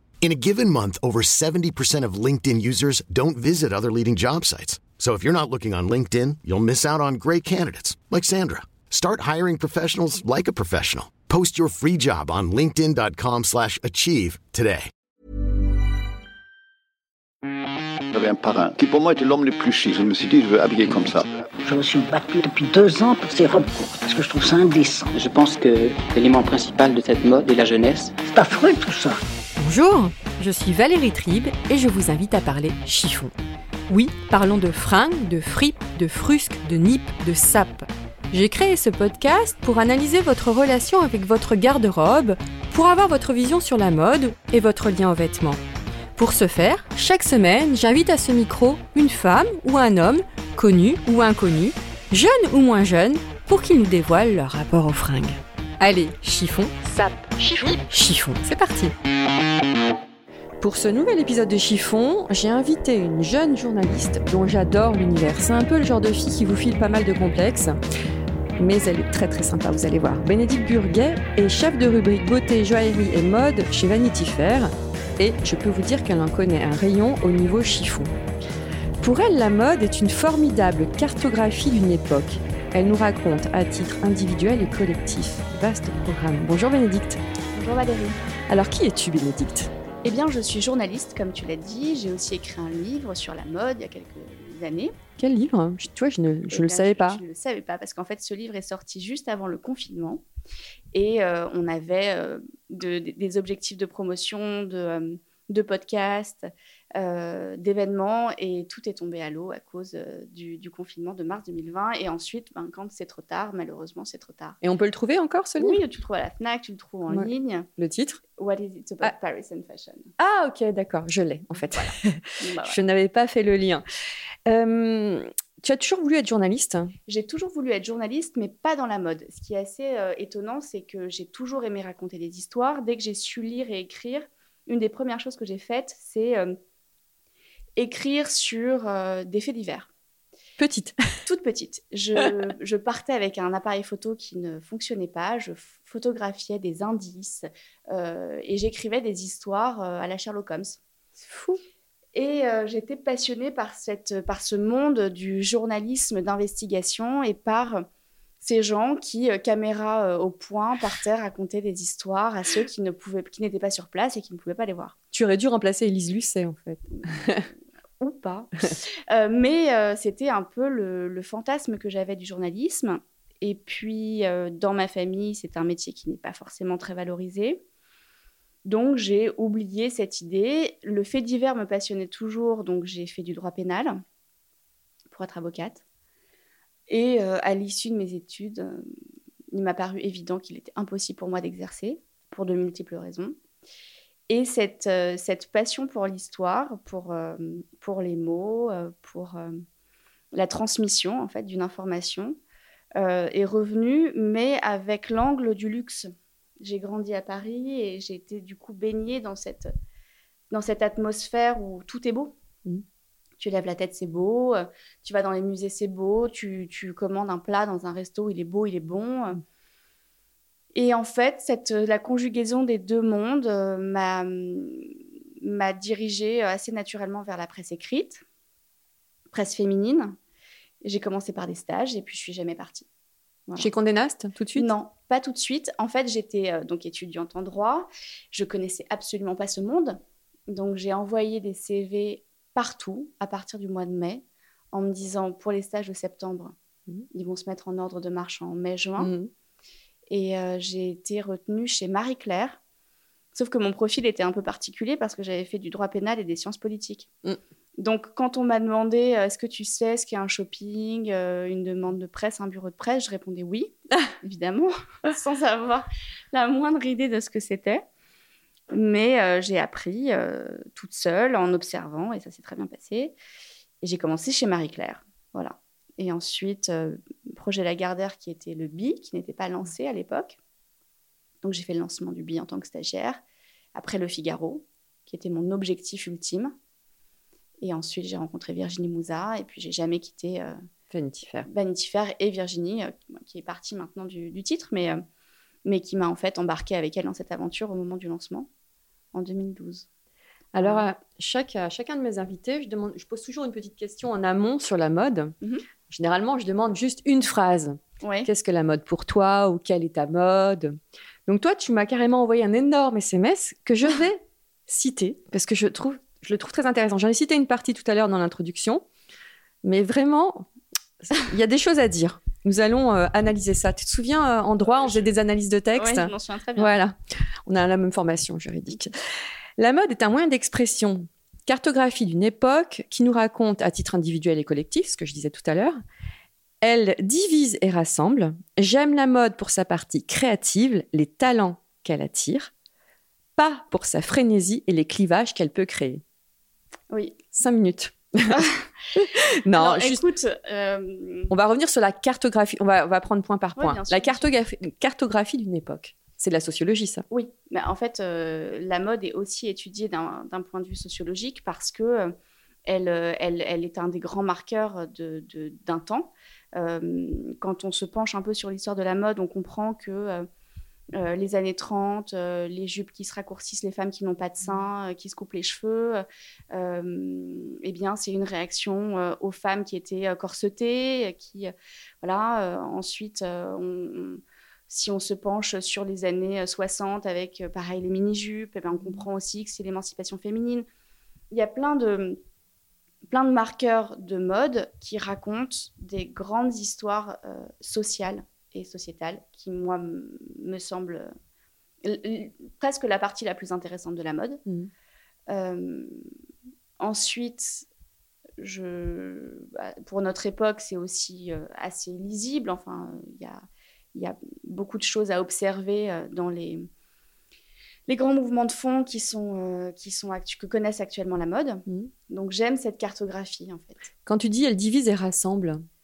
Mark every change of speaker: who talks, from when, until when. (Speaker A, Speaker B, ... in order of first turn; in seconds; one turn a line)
Speaker A: 0.2-14.9
Speaker B: 18.1-21.3
Speaker C: 21.0-25.1
Speaker D: 25.1-28.2
Speaker C: 28.2-29.2
Speaker E: 29.6-33.3
Speaker E: 33.9-45.6
Speaker E: 46.2-58.9
Speaker E: 60.6-67.8
Speaker E: 68.6-78.1
Speaker E: 79.0-87.2
Speaker F: 87.5-88.2
Speaker E: 88.5-89.7
Speaker F: 90.0-94.9
Speaker E: 95.2-97.2
Speaker F: 96.5-100.2
Speaker F: 100.9-114.6
Speaker E: 114.6-115.8
Speaker F: 115.6-117.7
Speaker E: 117.1-118.2
Speaker F: 118.3-120.1
Speaker E: 120.2-123.8
Speaker F: 121.5-122.8
Speaker E: 124.5-126.9
Speaker F: 127.1-136.6
Speaker F: 137.8-139.9
Speaker E: 140.6-141.0
Speaker F: 141.2-150.8
Speaker E: 151.3-151.6
Speaker F: 152.1-157.8
Speaker F: 158.4-164.9
Speaker E: 165.1-167.5
Speaker F: 167.0-167.3
Speaker F: 168.0-168.5
Speaker F: 169.1-177.6
Speaker F: 178.6-184.0
Speaker F: 185.1-185.8
Speaker F: 186.9-188.9
Speaker F: 189.5-193.3
Speaker F: 194.3-199.6
Speaker F: 200.3-202.4
Speaker F: 203.0-209.7
Speaker F: 210.5-212.3
Speaker F: 213.4-219.4
Speaker F: 220.7-228.2
Speaker F: 229.3-230.2
Speaker F: 230.8-232.9
Speaker F: 233.5-233.7
Speaker E: 233.6-234.7
Speaker F: 234.5-246.5
Speaker F: 247.1-249.1
Speaker E: 249.0-249.3
Speaker F: 250.1-252.6
Speaker F: 253.3-257.1
Speaker F: 257.8-267.8
Speaker F: 268.7-273.1
Speaker F: 273.8-280.4
Speaker F: 281.4-283.2
Speaker F: 283.7-286.5
Speaker F: 287.6-290.6
Speaker E: 290.9-291.5
Speaker F: 291.4-295.0
Speaker F: 295.6-298.5
Speaker F: 299.1-299.9
Speaker E: 300.5-305.3
Speaker F: 300.6-300.9
Speaker F: 305.4-305.6
Speaker E: 305.9-318.8
Speaker F: 308.0-308.3
Speaker E: 319.6-320.5
Speaker E: 321.0-328.9
Speaker F: 324.6-325.1
Speaker F: 325.7-326.7
Speaker E: 329.6-335.8
Speaker E: 336.6-342.5
Speaker E: 343.4-346.0
Speaker F: 346.9-347.2
Speaker E: 347.3-350.0
Speaker F: 348.3-348.6
Speaker F: 349.5-351.3
Speaker E: 351.3-357.0
Speaker F: 353.6-354.2
Speaker F: 357.1-362.1
Speaker F: 362.6-370.3
Speaker F: 370.9-390.6
Speaker F: 391.3-392.2
Speaker F: 393.1-401.1
Speaker F: 401.8-404.4
Speaker F: 405.3-406.0
Speaker F: 406.8-407.7
Speaker F: 408.4-416.7
Speaker F: 417.9-423.8
Speaker E: 424.1-425.6